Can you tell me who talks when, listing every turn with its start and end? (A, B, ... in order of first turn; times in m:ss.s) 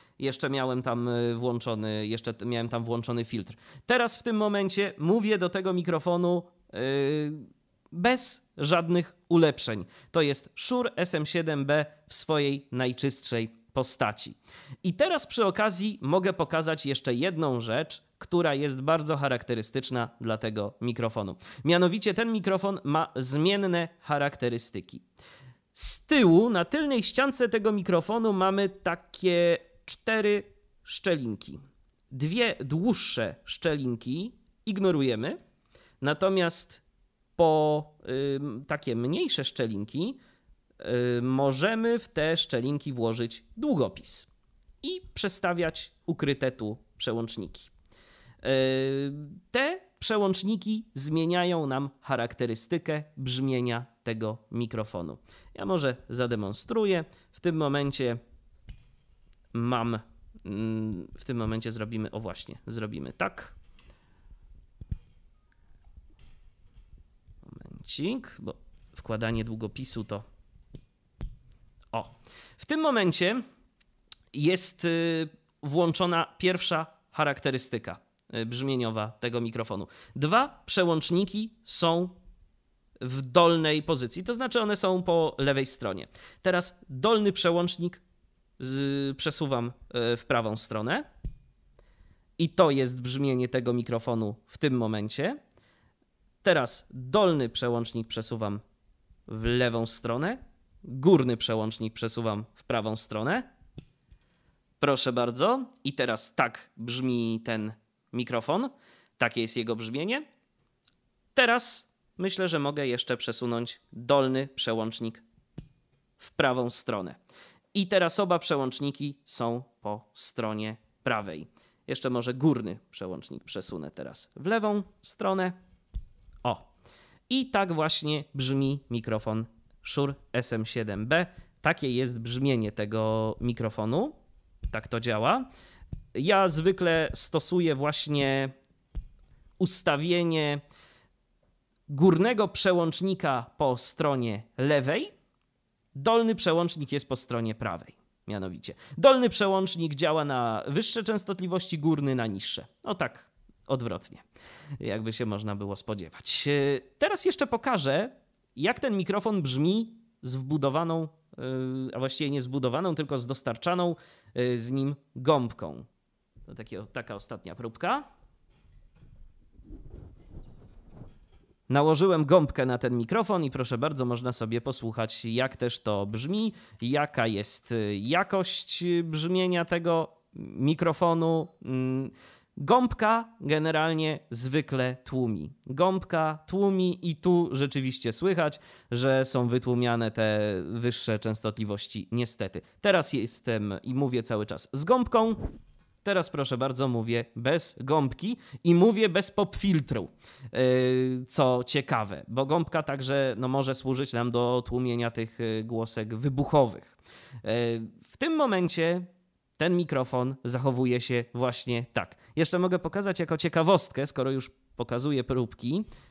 0:00.2-0:25.0 A
0:25.7-0:35.4 A
0:36.0-0:36.8 A
0:37.4-0:40.2 A
0:40.8-0:44.3 A
0:44.8-0:47.7 A
0:48.4-0:58.2 A
0:59.5-1:03.5 A
1:07.4-1:10.2 A
1:11.9-1:13.4 A
1:14.3-1:22.2 A
1:23.0-1:28.0 A
1:28.6-1:31.0 A
1:32.4-1:35.4 A
1:36.4-1:38.6 A
1:39.3-1:43.5 A
1:44.8-1:50.2 A
1:51.3-1:55.2 A
1:56.2-1:57.2 A
1:57.7-2:05.6 A
2:07.3-2:14.1 A
2:14.7-2:15.5 A
2:16.1-2:18.5 A
2:19.6-2:20.6 A
2:21.9-2:25.1 A
2:25.9-2:34.2 A
2:34.8-2:45.9 A
2:46.5-2:48.0 A
2:51.7-3:15.4 A
3:16.0-3:35.8 A